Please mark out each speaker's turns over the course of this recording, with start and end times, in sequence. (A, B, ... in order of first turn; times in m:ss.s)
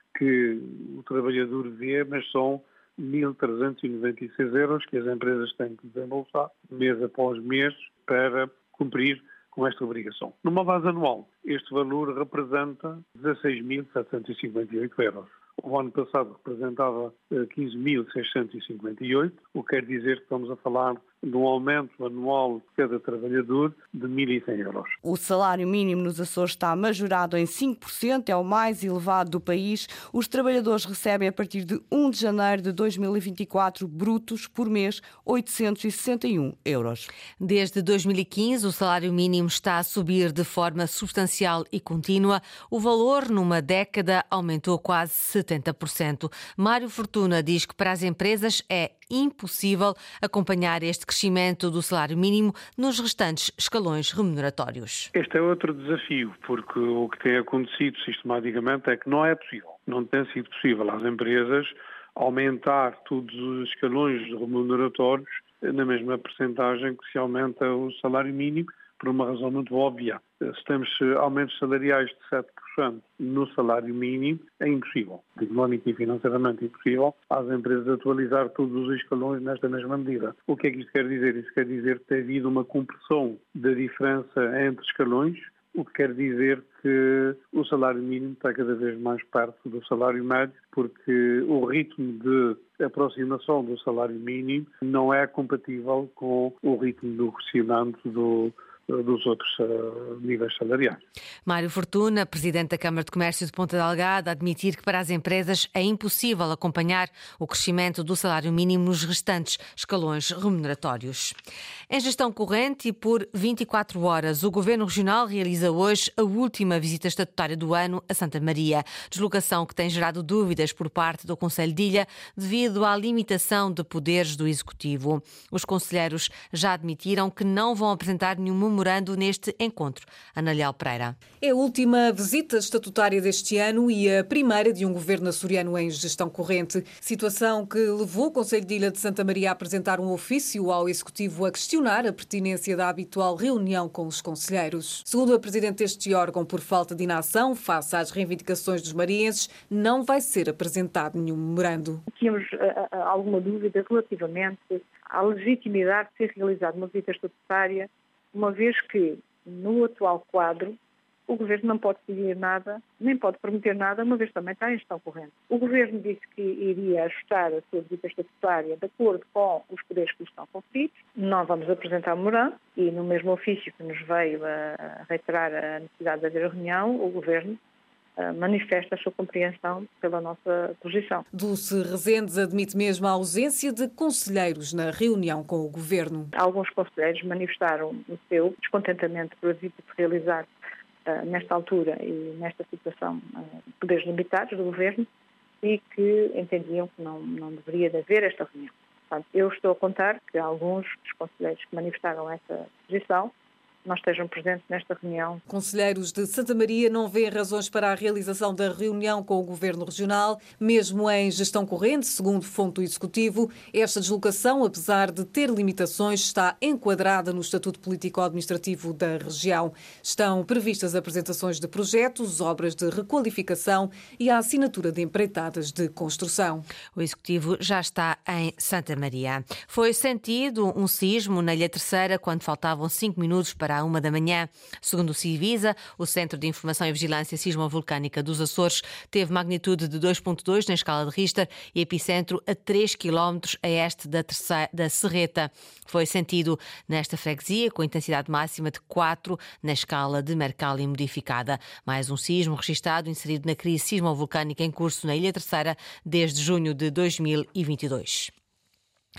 0:00.1-0:24.9 A
0:25.0-0:37.1 B
0:37.4-0:55.1 C
0:55.1-1:41.0 A
1:41.4-1:51.4 C
1:51.9-2:11.2 C
2:11.4-2:32.0 D
2:32.1-2:40.8 E
2:41.3-2:57.6 E
2:58.2-3:01.2 E
3:01.3-3:06.3 D
3:06.4-3:10.5 E
3:11.0-3:15.1 E
3:15.6-3:23.3 E
3:23.8-3:25.4 E
3:25.5-3:46.6 D
3:46.9-4:18.3 C